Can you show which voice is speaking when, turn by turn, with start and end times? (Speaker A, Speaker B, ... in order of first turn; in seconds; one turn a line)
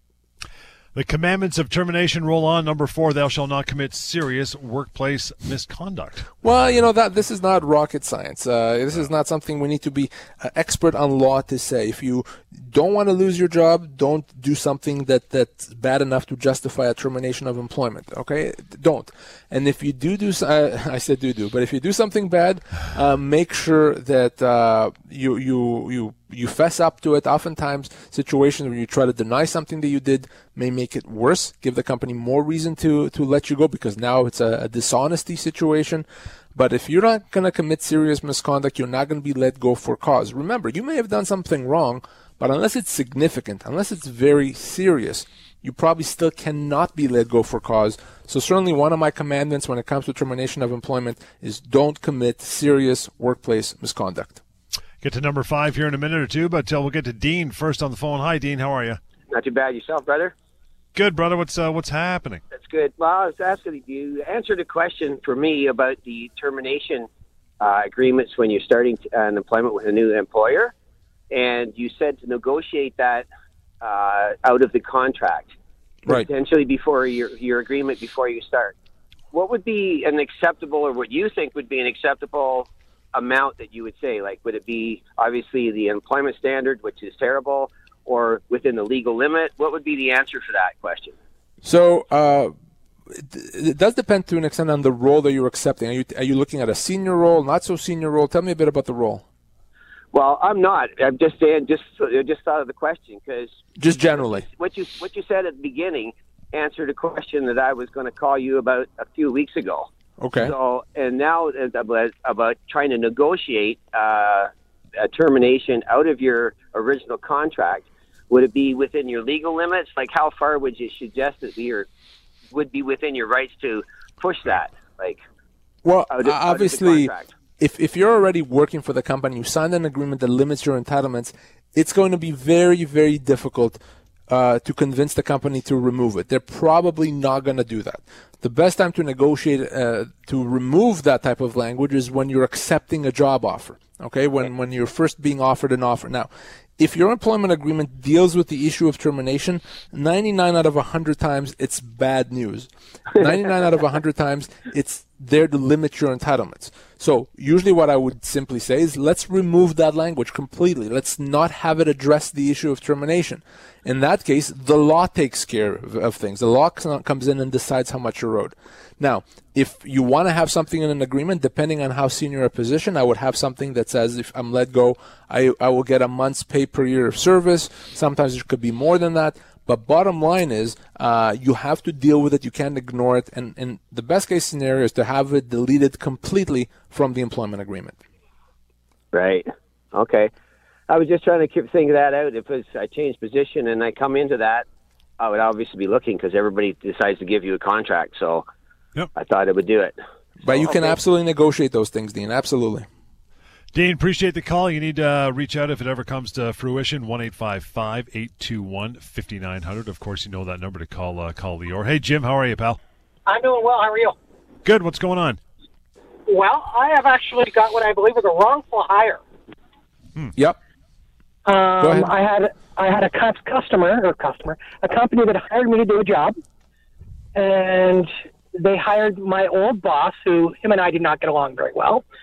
Speaker A: 0.9-6.4
Speaker B: 6.4-54.4
Speaker A: 55.0-59.0
Speaker C: 59.3-60.3
Speaker A: 60.9-62.4
Speaker C: 62.5-67.1
Speaker C: 67.6-70.7
Speaker C: 71.3-73.3
Speaker C: 73.8-75.5
Speaker C: 76.1-78.7
Speaker C: 79.3-91.1
Speaker B: 91.6-92.5
Speaker B: 93.1-99.2
Speaker C: 100.1-121.9
Speaker B: 103.8-104.5
Speaker B: 110.2-110.5
Speaker C: 122.5-125.2
Speaker B: 125.8-188.0
Speaker C: 126.1-127.3
Speaker C: 189.1-190.3
Speaker C: 190.9-194.7
Speaker C: 195.2-198.4
Speaker C: 199.1-201.0
Speaker B: 200.4-202.8
Speaker A: 203.7-212.8
Speaker D: 213.3-214.2
Speaker A: 214.6-215.4
Speaker D: 216.3-219.2
Speaker D: 221.4-226.3
Speaker B: 221.8-222.1
Speaker D: 227.3-232.0